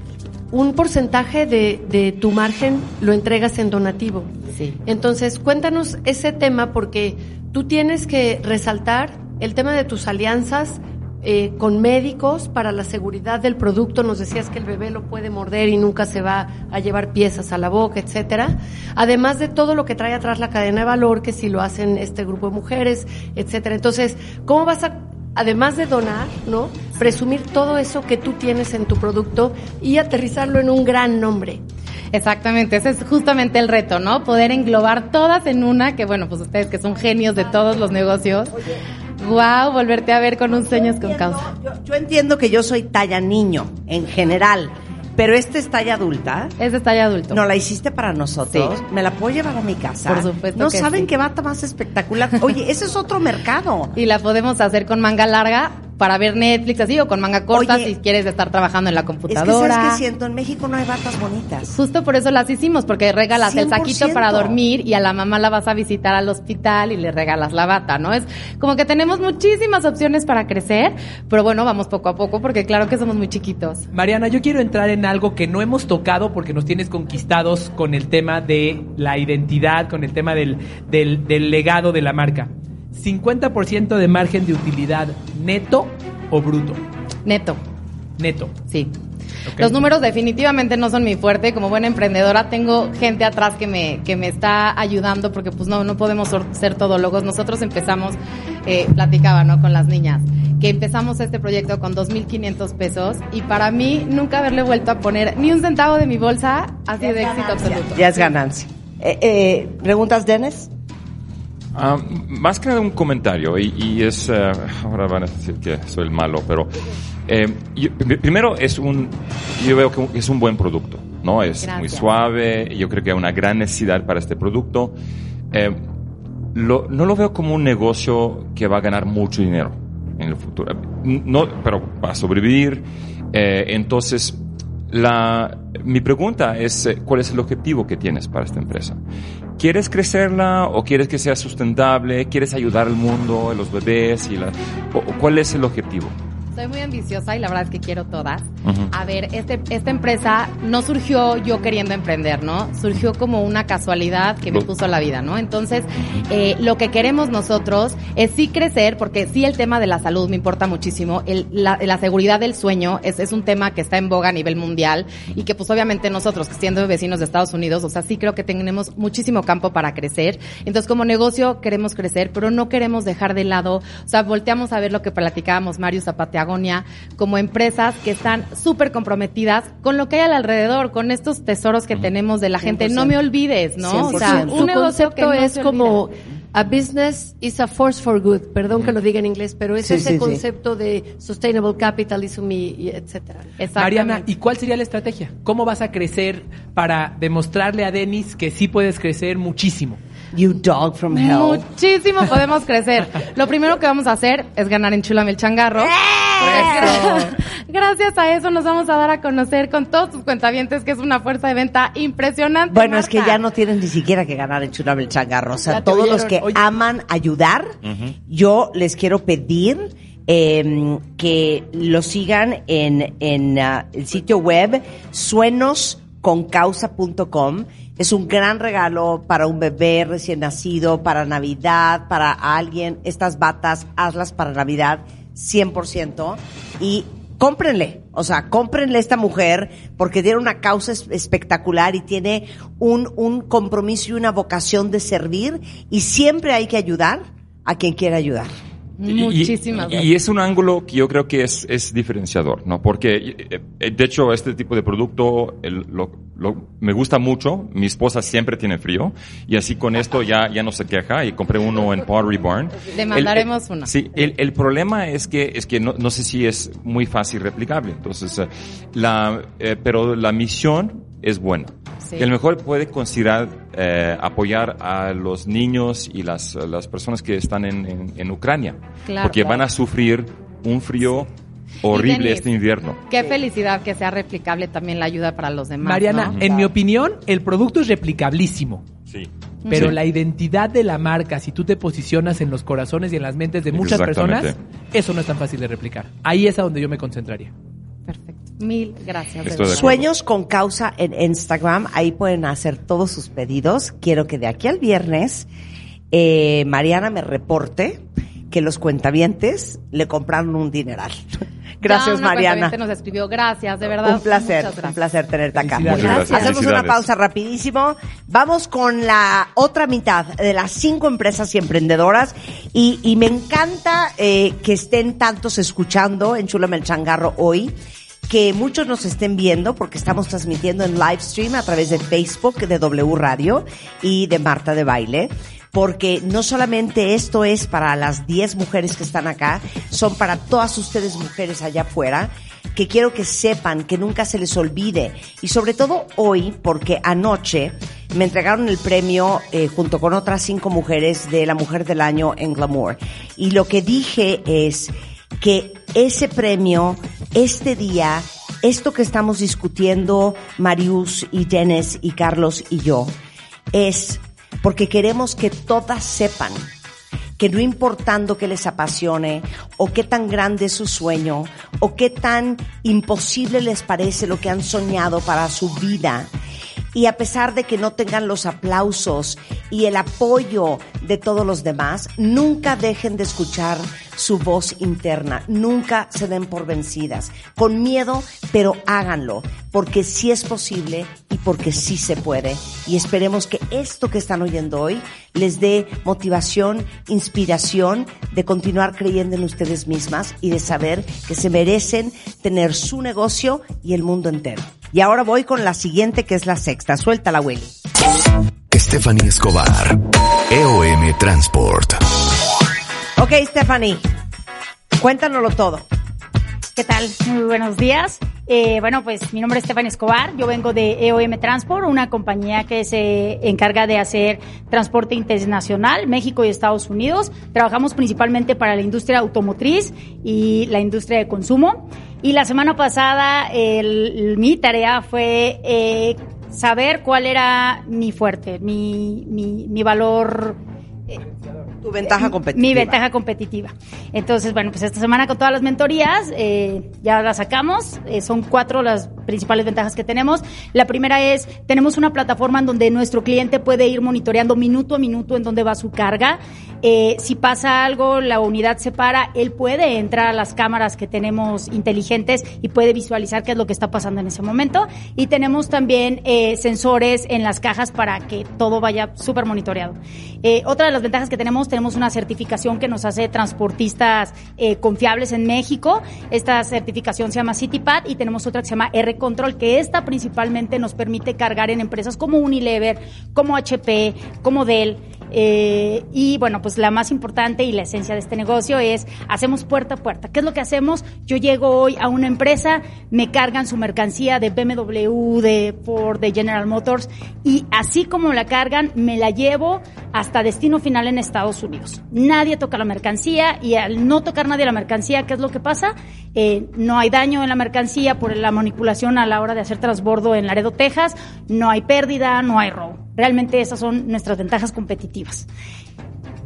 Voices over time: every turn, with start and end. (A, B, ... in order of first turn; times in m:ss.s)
0:00.5-0:31.6 A
0:04.6-0:04.8 B
0:32.1-0:38.6 B
0:39.2-0:41.4 B
0:40.8-0:46.6 C
0:46.6-0:47.4 B
0:47.3-0:53.9 C
0:48.5-0:48.8 B
0:50.0-0:51.1 B
0:54.0-1:00.0 B
0:57.5-0:57.9 C
0:59.3-1:01.8 C
1:01.7-1:13.9 B
1:03.3-1:04.6 C
1:13.9-1:26.8 D
1:27.2-1:27.6 B
1:28.2-1:28.6 D
1:28.7-1:29.0 B
1:29.5-1:29.7 D
1:29.6-1:48.4 B
1:47.0-1:50.7 C
1:51.7-1:56.7 E
1:57.3-2:05.0 E
2:01.6-2:02.1 B
2:05.5-2:05.8 E
2:06.5-2:19.0 E
2:19.6-2:26.2 E
2:26.6-3:06.0 B
3:02.6-3:03.1 A
3:03.8-3:04.7 C
3:03.9-3:13.6 A
3:09.8-3:10.4 C
3:13.6-3:14.3 B
3:13.8-3:20.0 D
3:20.3-3:21.6 C
3:21.1-3:33.4 B
3:25.8-3:27.2 C
3:32.7-3:37.7 C
3:35.8-3:36.4 B
3:37.9-3:38.1 E
3:38.3-4:08.5 C
4:09.0-4:10.1 B
4:09.0-4:41.3 E
4:22.9-4:24.3 B
4:32.0-4:32.3 B
4:39.0-4:39.7 B
4:41.8-4:43.0 E
4:41.9-4:42.5 B
4:43.1-4:46.7 B
4:45.8-4:48.9 D
4:49.1-4:50.0 E
4:49.6-4:50.0 B
4:49.7-4:57.5 D
4:53.7-4:54.6 E
4:58.1-5:00.0 B
4:59.4-5:00.0 E
4:59.7-5:05.5 C
5:06.1-5:12.7 C
5:11.8-5:15.0 B
5:14.0-5:27.7 C
5:15.6-5:16.3 D
5:15.8-5:17.0 E
5:16.1-5:16.6 B
5:28.3-6:03.1 C
6:03.7-6:06.7 C
6:07.4-6:16.3 C
6:16.9-6:47.7 C
6:48.7-6:52.0 F
6:53.2-6:54.1 C
6:55.0-6:55.9 C
6:56.8-7:20.6 G
7:21.8-7:23.0 C
7:22.2-8:35.4 G